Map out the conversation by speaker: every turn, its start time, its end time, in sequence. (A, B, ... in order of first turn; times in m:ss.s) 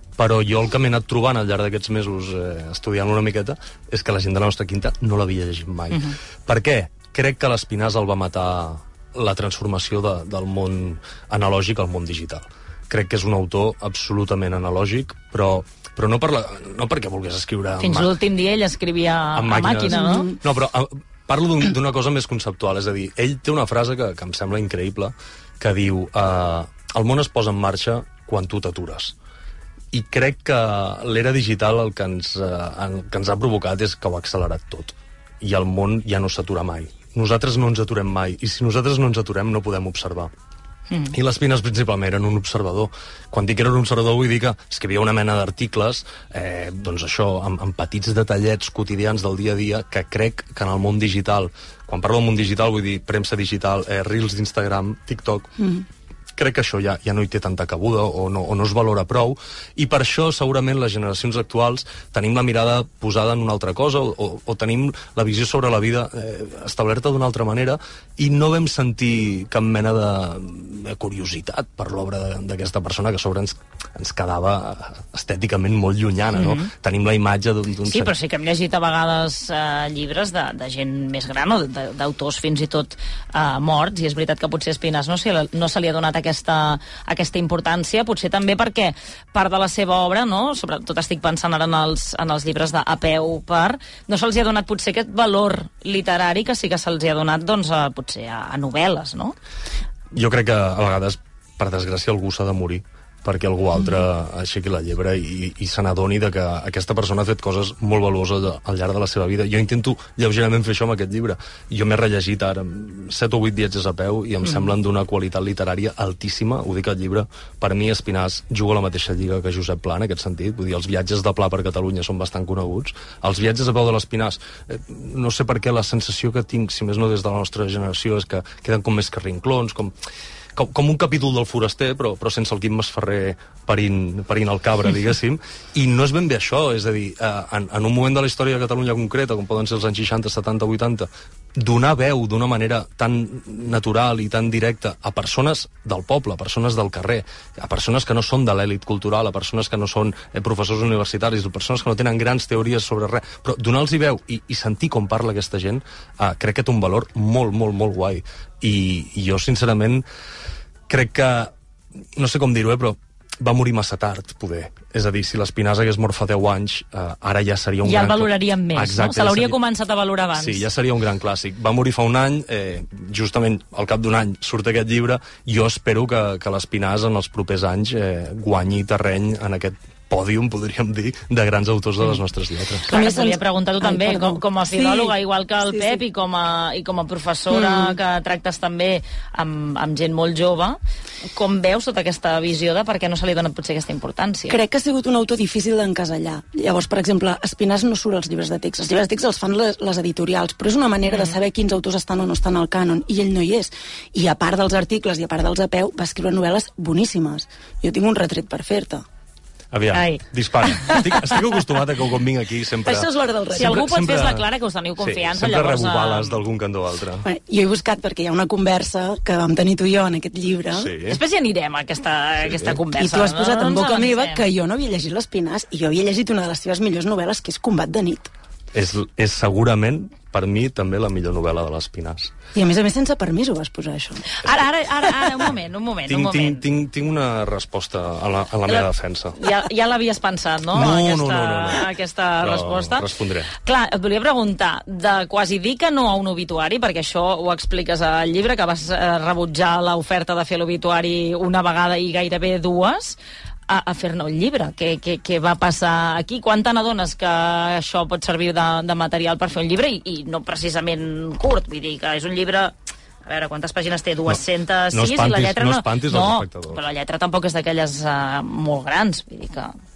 0:00.2-0:18.2 A
0:17.8-0:20.4 B
0:19.4-0:29.2 A
0:29.9-0:40.3 A
0:40.9-0:41.2 B
0:41.1-0:55.5 A
0:55.6-0:55.9 C
0:56.4-1:18.1 A
1:16.4-1:16.7 B
1:17.9-1:39.4 B
1:40.1-2:10.0 A
2:10.6-2:40.0 A
2:40.9-2:41.5 A
2:42.2-2:49.6 A
2:47.8-2:50.6 B
2:50.4-3:02.9 A
3:02.9-3:05.1 C
3:02.9-3:10.8 B
3:05.7-3:06.0 C
3:07.5-3:08.0 C
3:11.3-3:14.6 B
3:14.5-3:29.0 C
3:21.1-3:21.4 B
3:29.7-3:34.5 A
3:29.9-3:31.3 B
3:32.8-3:33.9 C
3:33.5-3:36.4 B
3:35.0-3:37.3 A
3:37.2-3:40.9 C
3:40.7-3:41.2 A
3:41.1-3:44.4 B
3:42.5-3:42.8 A
3:42.9-3:48.3 C
3:48.7-3:52.3 A
3:52.6-3:54.3 C
3:54.3-3:56.7 B
3:55.2-3:55.5 A
3:56.1-3:59.4 A
3:58.7-4:29.7 B
4:00.7-4:03.5 A
4:24.3-4:26.8 A